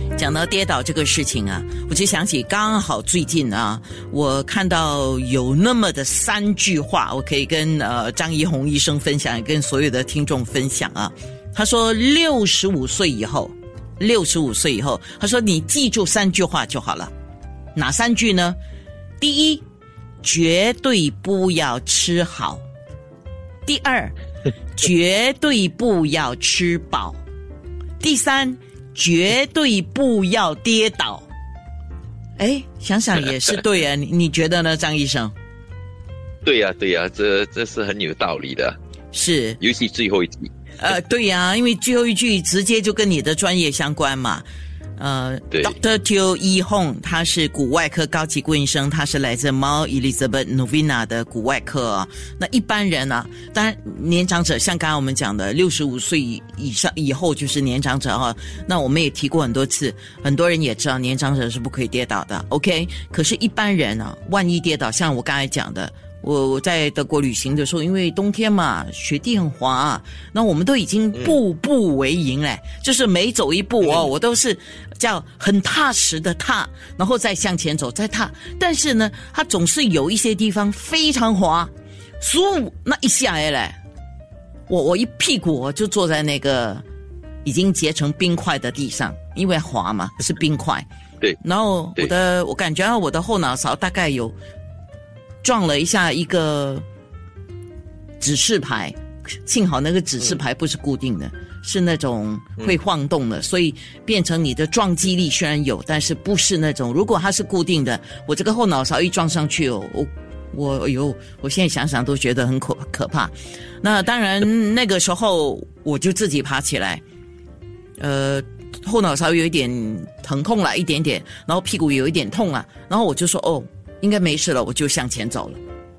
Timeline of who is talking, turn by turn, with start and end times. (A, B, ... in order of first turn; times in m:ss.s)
0:00.2-0:17.1 A
0:17.8-0:18.6 A
0:19.2-0:19.6 A
0:20.2-0:22.6 A
0:23.7-0:24.1 A
0:24.8-0:27.2 A
0:28.0-0:31.3 A
0:32.4-0:35.3 A
0:36.4-0:38.8 B
0:39.1-0:39.6 A
0:39.6-0:40.5 B
0:40.8-0:44.4 A
0:45.0-1:23.8 A
0:45.5-0:45.8 B
1:13.8-1:14.1 B
1:24.7-1:26.8 A
1:27.4-1:30.8 A
1:31.4-1:34.4 A
1:35.4-1:36.8 A
1:38.2-1:57.0 A
1:58.0-2:05.6 A